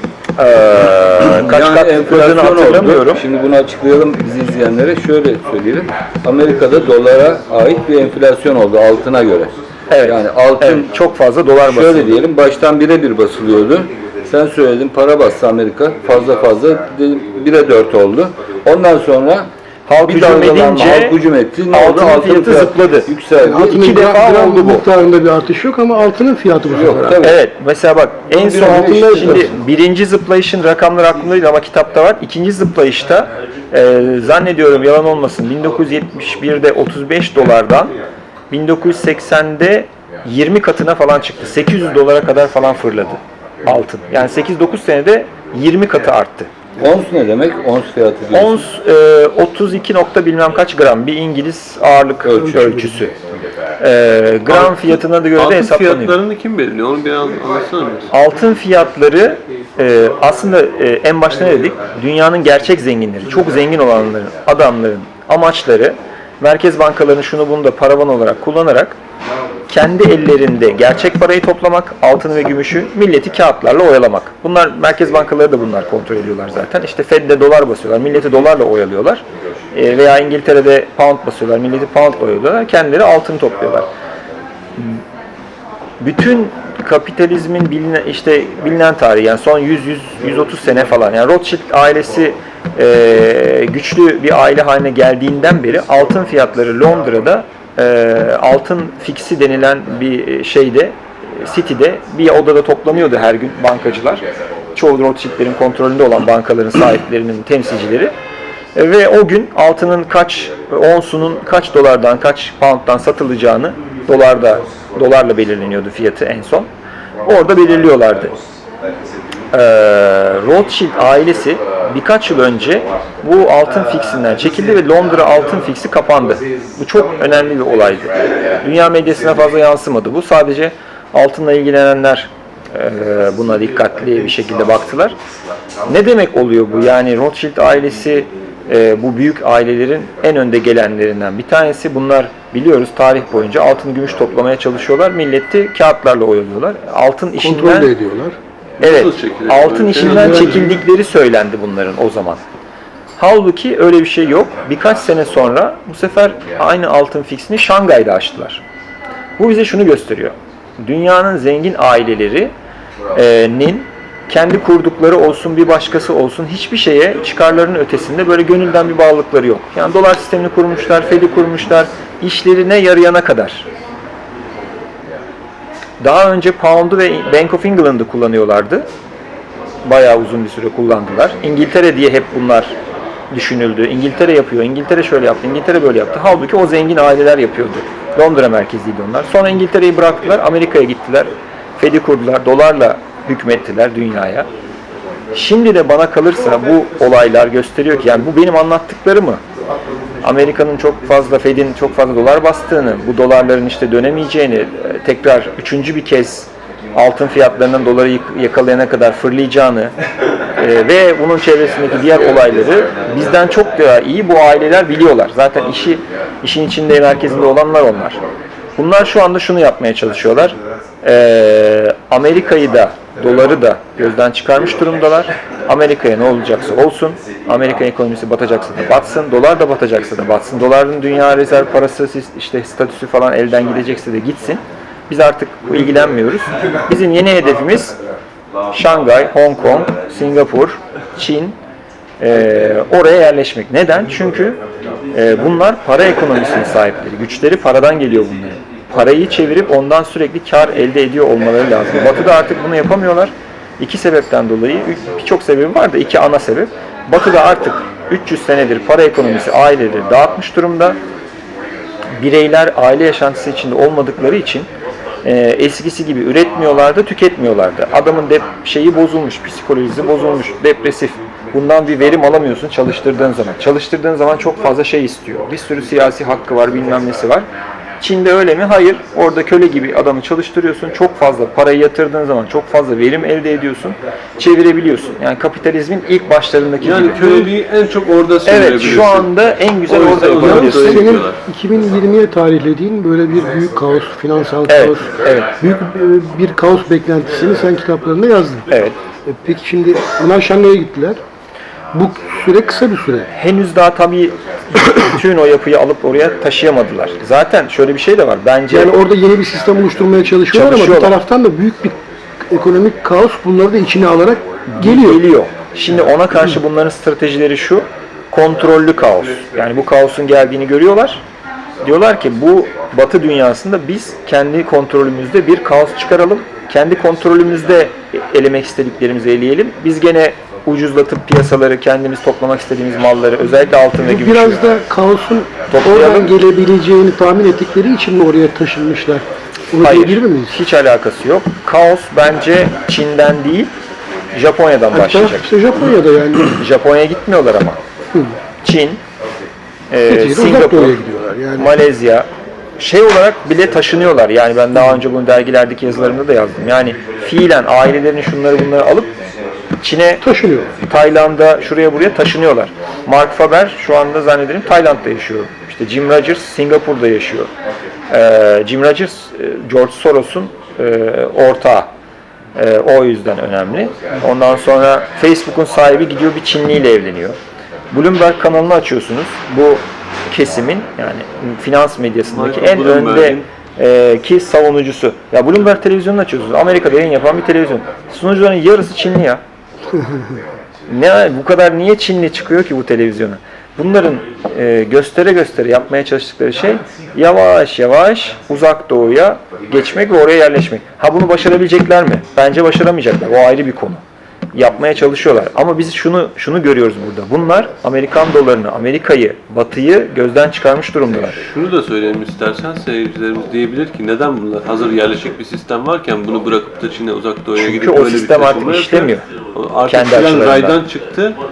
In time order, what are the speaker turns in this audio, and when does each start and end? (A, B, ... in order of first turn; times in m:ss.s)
0:00.4-0:03.2 A
0:01.4-0:10.9 B
0:09.9-0:12.1 A
0:11.6-0:19.5 B
0:19.9-0:21.2 A
0:20.0-0:23.8 B
0:21.7-0:23.1 A
0:23.4-0:27.2 C
0:23.6-0:24.9 A
0:26.7-0:27.4 B
0:27.2-0:37.9 A
0:28.3-0:29.5 C
0:38.5-0:46.5 A
0:46.8-0:48.6 B
0:48.3-0:53.1 A
0:52.2-0:53.0 C
0:53.8-0:56.2 A
0:54.5-0:58.1 D
0:58.1-1:09.0 A
1:09.7-1:23.9 A
1:26.0-1:44.2 A
1:44.8-1:48.1 A
1:48.8-1:56.7 A
1:57.2-1:58.3 A
1:59.5-2:15.2 A
2:15.9-2:27.9 A
2:27.4-2:28.4 C
2:28.8-2:30.6 D
2:28.8-2:32.4 A
2:30.0-2:30.8 C
2:33.2-2:38.6 A
2:39.4-2:42.5 A
2:43.1-2:53.6 A
2:56.0-2:58.9 A
2:59.8-3:02.7 A
3:03.3-3:14.5 A
3:15.3-3:19.4 A
3:20.2-3:29.9 A
3:30.6-3:38.2 A
3:38.8-3:57.9 A
3:58.7-4:01.6 A
4:02.2-4:04.6 A
4:05.1-4:21.0 A
4:22.2-4:24.7 A
4:25.2-4:37.5 A
4:38.0-4:47.5 A
4:46.8-4:51.4 D
4:48.5-4:51.1 A
4:50.3-4:58.6 C
4:54.7-4:55.5 A
4:58.7-4:59.0 A
4:59.3-5:01.2 C
5:01.9-5:03.3 C
5:03.3-5:09.0 A
5:08.7-5:12.0 C
5:10.5-5:11.2 A
5:12.5-5:15.2 C
5:14.8-5:21.2 A
5:21.8-5:34.7 A
5:34.0-5:40.6 C
5:35.7-5:36.3 A
5:39.8-5:43.7 A
5:44.4-5:45.5 A
5:44.9-5:46.6 C
5:46.6-5:47.8 A
5:48.6-5:49.0 A
5:49.9-5:51.0 A
5:50.0-5:51.7 C
5:51.6-5:52.3 A
5:52.8-5:59.1 A
5:59.8-6:00.2 A
6:00.2-6:00.7 C
6:00.9-6:07.5 A
6:08.1-6:11.9 A
6:12.6-6:17.4 A
6:17.9-6:29.4 A
6:22.3-6:23.5 D
6:30.9-6:44.0 A
6:44.5-6:51.4 A
6:51.2-7:01.4 D
6:57.6-6:59.2 A
6:59.9-7:00.8 A